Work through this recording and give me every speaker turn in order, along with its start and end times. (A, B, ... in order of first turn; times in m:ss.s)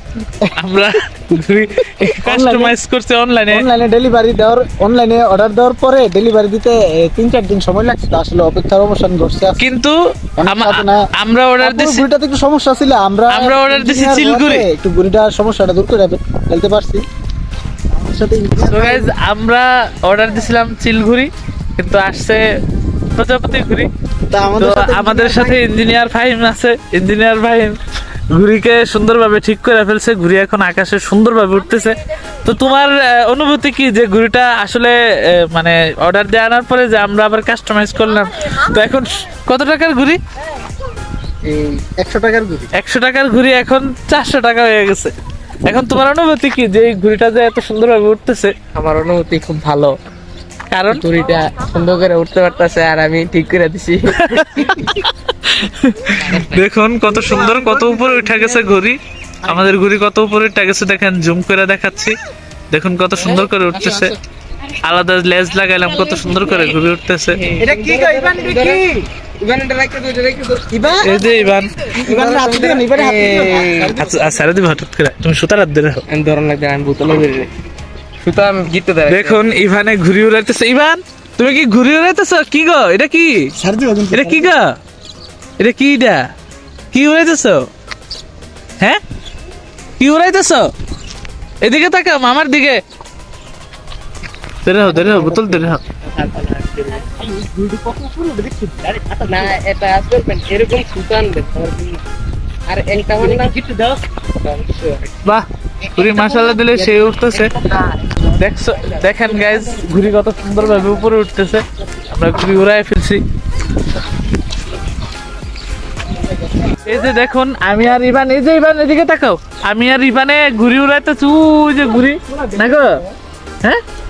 0:00.6-0:03.6 A
0:02.2-0:02.8 B
0:03.5-0:09.6 B
0:09.6-0:12.0 A
0:10.4-0:11.0 B
0:11.6-0:17.0 B
0:13.3-0:14.6 A
0:17.9-0:19.1 B
0:18.7-0:22.4 A
0:23.1-0:23.9 A
0:24.3-0:25.6 B
0:24.6-0:27.8 A
0:28.3-0:40.2 A
0:41.4-0:41.8 C
0:42.0-0:42.7 B
0:42.8-0:45.1 A
0:45.6-0:48.5 A
0:48.7-0:50.0 C
0:50.7-0:51.0 A
0:50.9-0:54.9 C
0:54.1-1:02.2 A
0:56.1-0:56.6 C
0:57.1-0:58.6 B
1:02.7-1:04.1 A
1:03.2-1:04.2 C
1:04.7-1:07.4 A
1:07.4-1:08.8 C
1:07.6-1:09.0 B
1:09.4-1:11.0 C
1:10.7-1:11.1 B
1:11.0-1:11.7 A
1:11.8-1:14.0 C
1:12.0-1:14.6 B
1:14.0-1:16.0 A
1:16.1-1:17.5 C
1:18.2-1:19.4 C
1:19.1-1:23.5 A
1:23.6-1:24.5 B
1:24.1-1:24.8 A
1:25.6-1:26.2 A
1:26.9-1:27.7 A
1:30.0-1:30.7 A
1:31.6-1:32.8 A
1:34.6-1:35.8 A
1:35.0-1:35.4 C
1:36.2-1:37.0 C
1:37.0-1:39.5 B
1:39.2-1:42.0 C
1:42.7-1:43.6 C
1:43.2-1:44.0 B
1:44.4-1:45.0 C
1:45.2-1:47.5 A
1:45.8-1:47.8 B
1:48.3-1:53.2 A
1:56.8-2:03.0 A